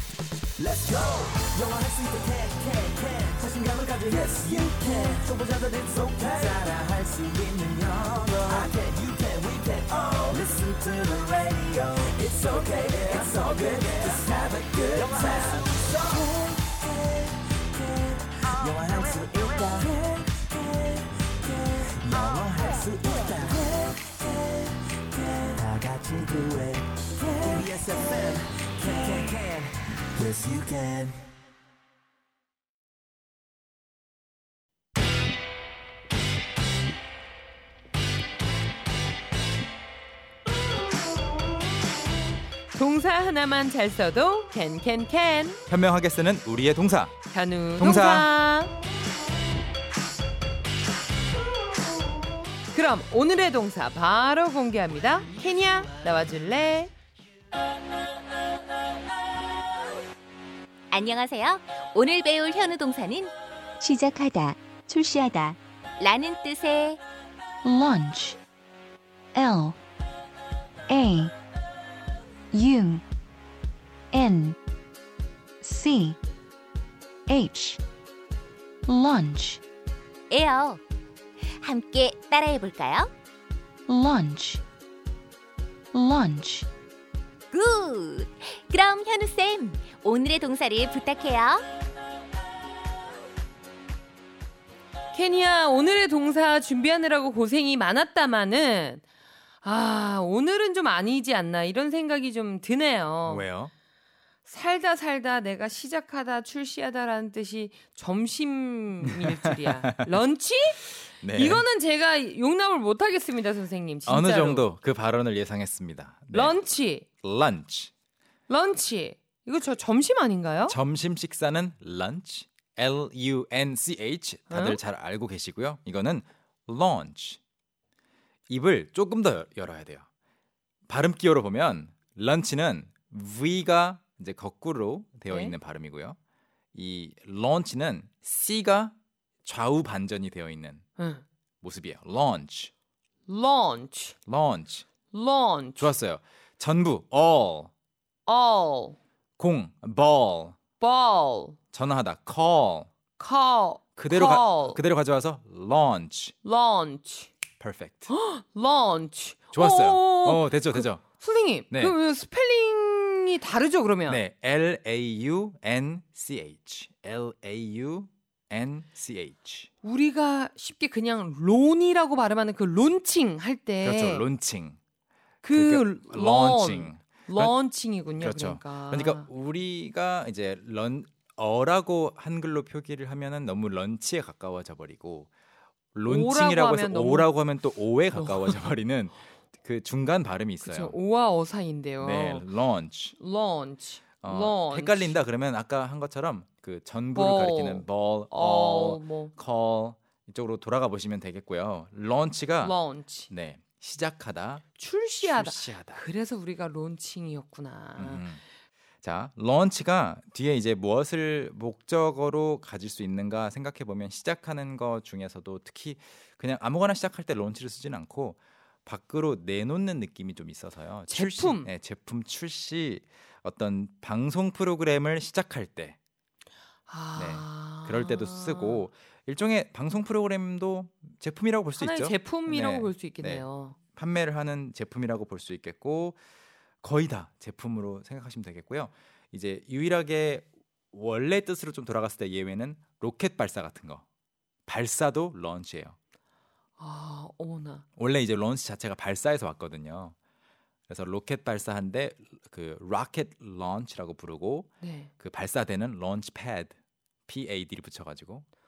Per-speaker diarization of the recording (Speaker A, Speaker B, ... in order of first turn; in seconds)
Speaker A: 0.6-16.6, 17.9-24.4, 25.1-31.2
Speaker B: 42.7-45.6, 47.3-48.8, 52.7-56.9, 95.1-99.0, 99.6-103.5, 104.5-114.7, 116.3-117.1, 118.5-120.8, 124.5-124.8, 135.3-135.5, 141.0-141.2, 143.3-144.2, 145.1-145.9, 148.3-149.0, 150.8-151.6, 153.2-154.8, 156.4-157.3, 158.1-164.2, 169.8-174.2, 175.4-179.3, 186.1-187.3, 188.2-188.6, 190.6-192.5, 193.2-195.2, 197.2-199.3, 202.6-203.3, 204.8-208.2, 221.1-221.7, 226.9-228.9, 231.8-233.8, 246.8-247.8, 254.8-255.1
Speaker C: 45.7-47.2, 47.8-48.3, 103.2-103.7, 109.1-109.9, 111.2-111.7, 114.1-116.6, 117.2-117.9, 120.7-127.4, 128.5-130.1, 130.9-136.2, 136.8-138.9, 139.4-140.8, 141.6-142.7, 144.3-144.8, 145.8-147.7, 149.4-150.6, 151.7-152.9, 154.0-156.3, 157.6-158.1, 159.5-161.0, 161.7-162.0, 164.1-169.7, 173.8-174.8, 175.5-177.5, 178.2-185.3, 185.9-191.0, 192.0-193.2, 194.2-202.8, 203.3-206.0, 208.0-208.4, 209.0-226.0, 227.2-236.2, 236.8-244.0, 244.7-246.0, 248.0-250.2, 250.9-256.8, 257.3-258.4
Speaker D: 60.9-67.0, 80.3-80.8, 81.4-83.1, 87.5-91.6
Speaker E: 67.6-68.4, 69.3-69.8, 70.9-71.3, 72.5-73.0, 74.1-74.6, 75.6-76.2, 77.3-77.8, 78.9-79.6, 83.9-84.6, 85.9-86.7